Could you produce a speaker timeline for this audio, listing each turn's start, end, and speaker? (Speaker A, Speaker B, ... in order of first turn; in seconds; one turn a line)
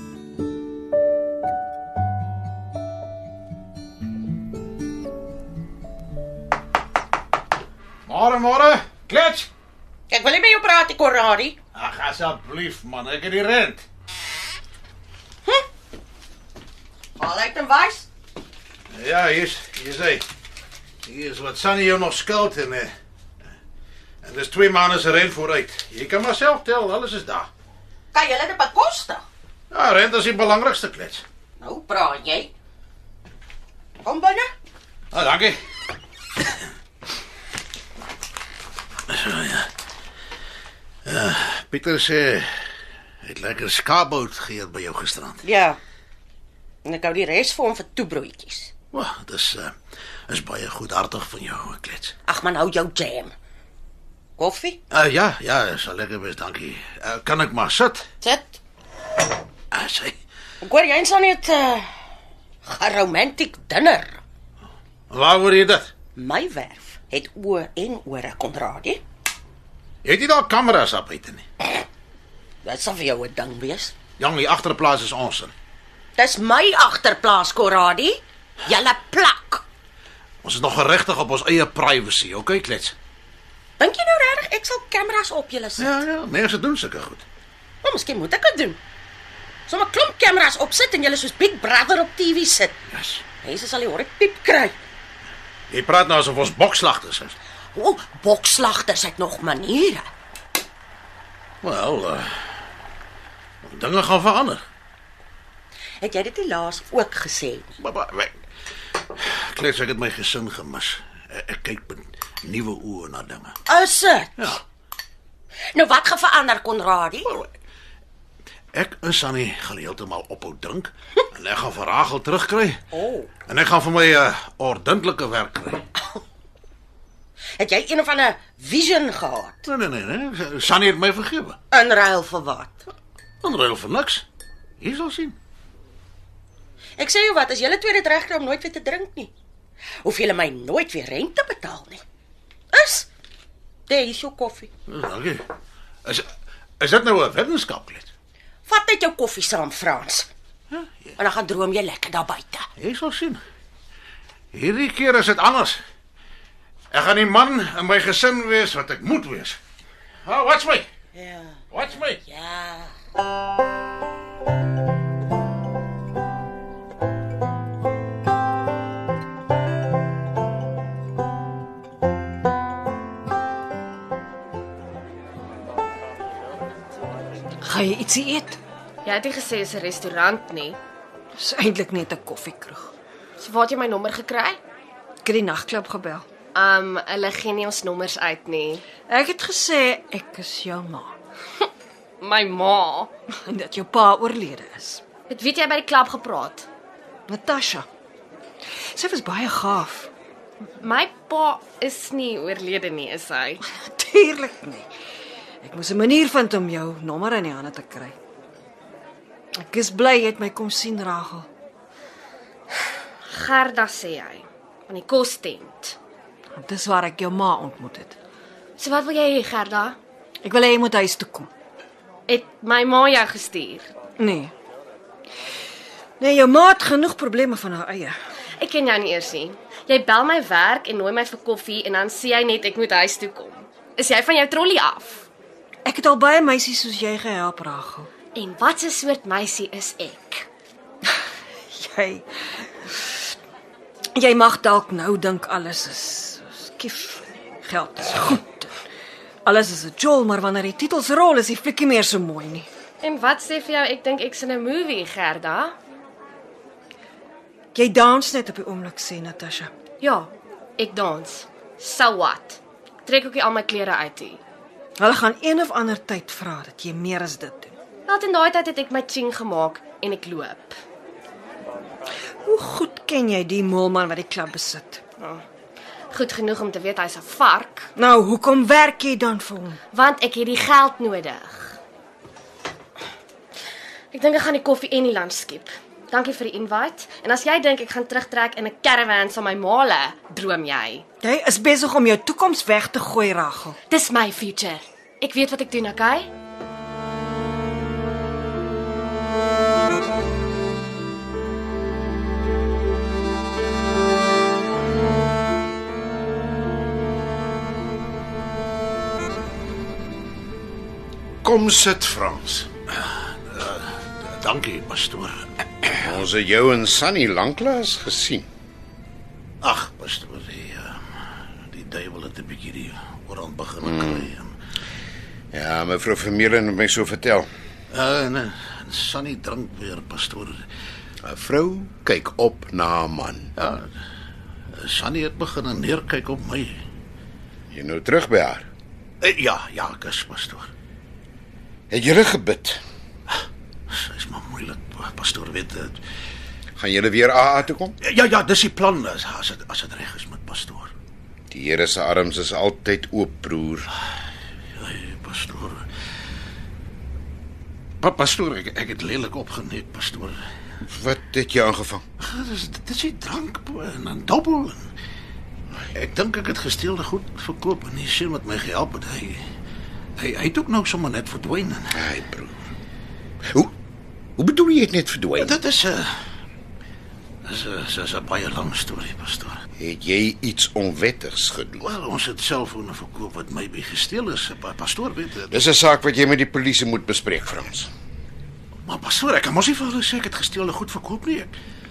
Speaker A: 8.1-9.5
Speaker B: 10.1-11.6
Speaker A: 11.7-13.8
Speaker B: 17.2-18.1
Speaker A: 18.9-20.2
Speaker A: 21.1-22.9
Speaker A: 24.2-27.5
Speaker B: 28.1-29.2
Speaker A: 29.7-31.2
Speaker B: 31.6-32.5
Speaker B: 34.0-34.5
Speaker A: 35.1-35.6
Speaker A: 39.1-39.7
Speaker A: 41.0-42.5
Speaker A: 43.2-45.4
Speaker B: 45.4-45.8
Speaker B: 46.8-48.7
Speaker A: 48.9-49.7
Speaker A: 50.3-52.2
Speaker B: 52.2-53.3
Speaker B: 54.4-54.8
Speaker A: 54.9-58.1
Speaker B: 58.2-58.6
Speaker A: 59.7-60.2
Speaker B: 60.6-61.9
Speaker B: 62.6-64.2
Speaker A: 65.1-65.9
Speaker B: 66.2-69.0
Speaker A: 70.0-71.5
Speaker B: 72.6-74.0
Speaker A: 74.2-75.5
Speaker B: 76.2-79.6
Speaker A: 80.4-83.0
Speaker B: 83.8-86.0
Speaker A: 85.8-87.2
Speaker B: 87.8-88.8
Speaker B: 89.7-92.8
Speaker A: 92.9-93.2
Speaker B: 93.4-94.8
Speaker A: 95.7-97.3
Speaker B: 97.8-100.1
Speaker A: 101.6-102.3
Speaker A: 103.6-104.6
Speaker B: 106.0-107.7
Speaker A: 107.8-108.3
Speaker A: 109.2-113.6
Speaker B: 113.7-114.5
Speaker B: 115.7-117.3
Speaker A: 118.7-122.8
Speaker B: 122.9-123.3
Speaker A: 123.5-125.9
Speaker B: 127.6-129.6
Speaker A: 129.7-131.6
Speaker B: 131.7-132.8
Speaker A: 133.4-134.2
Speaker A: 134.8-135.4
Speaker B: 137.0-139.3
Speaker B: 140.0-142.0
Speaker B: 142.7-143.1
Speaker B: 143.9-144.7
Speaker A: 144.9-145.4
Speaker A: 146.8-148.1
Speaker B: 148.7-150.3
Speaker A: 150.7-151.2
Speaker B: 151.2-152.7
Speaker A: 152.8-153.4
Speaker A: 154.5-155.8
Speaker A: 156.9-159.6
Speaker A: 160.2-160.9
Speaker B: 161.2-161.6
Speaker A: 161.7-162.2
Speaker B: 162.2-162.9
Speaker C: 177.6-178.6
Speaker D: 179.0-180.8
Speaker C: 181.3-182.9
Speaker D: 183.4-184.6
Speaker C: 185.2-186.3
Speaker D: 186.5-188.8
Speaker C: 189.1-191.2
Speaker D: 192.2-193.1
Speaker C: 193.4-195.0
Speaker D: 195.3-196.7
Speaker C: 197.3-197.9
Speaker C: 198.9-200.1
Speaker D: 200.8-203.6
Speaker C: 203.6-204.9
Speaker C: 205.6-208.2
Speaker C: 209.6-211.5
Speaker D: 213.3-216.0
Speaker C: 216.6-218.2
Speaker D: 218.8-220.0
Speaker C: 220.4-221.5
Speaker D: 222.3-223.9
Speaker C: 224.2-224.5
Speaker C: 226.2-228.2
Speaker D: 228.6-235.3
Speaker C: 235.8-238.1
Speaker D: 238.3-240.5
Speaker C: 241.7-242.3
Speaker C: 244.2-248.7
Speaker C: 249.4-252.7
Speaker D: 253.0-255.8
Speaker C: 257.7-259.7
Speaker D: 260.0-264.4
Speaker C: 265.0-267.7
Speaker D: 268.1-270.8
Speaker C: 272.4-275.2
Speaker D: 276.1-277.9
Speaker C: 278.0-279.8
Speaker D: 279.9-281.8
Speaker D: 284.1-291.1
Speaker C: 291.2-293.8
Speaker D: 293.9-296.3
Speaker E: 311.4-312.7
Speaker A: 313.0-316.1
Speaker E: 315.9-318.5
Speaker A: 319.6-321.0
Speaker A: 321.7-324.5
Speaker E: 323.9-324.3
Speaker E: 325.5-327.5
Speaker A: 327.9-330.6
Speaker E: 331.2-333.5
Speaker A: 333.6-333.9
Speaker A: 334.8-336.8
Speaker E: 337.7-338.7
Speaker A: 339.2-340.7
Speaker E: 341.9-342.8
Speaker A: 343.9-346.0
Speaker E: 346.8-348.0
Speaker A: 348.0-350.9
Speaker E: 351.5-353.9
Speaker A: 354.8-355.9
Speaker A: 358.0-360.4
Speaker E: 360.9-362.0
Speaker A: 362.2-364.9
Speaker A: 365.9-369.4
Speaker A: 370.2-372.1
Speaker E: 371.9-372.6
Speaker E: 374.4-375.6
Speaker A: 375.4-376.1
Speaker A: 377.4-379.6
Speaker E: 379.8-381.9
Speaker A: 381.8-385.6
Speaker E: 385.5-387.9
Speaker A: 388.9-391.6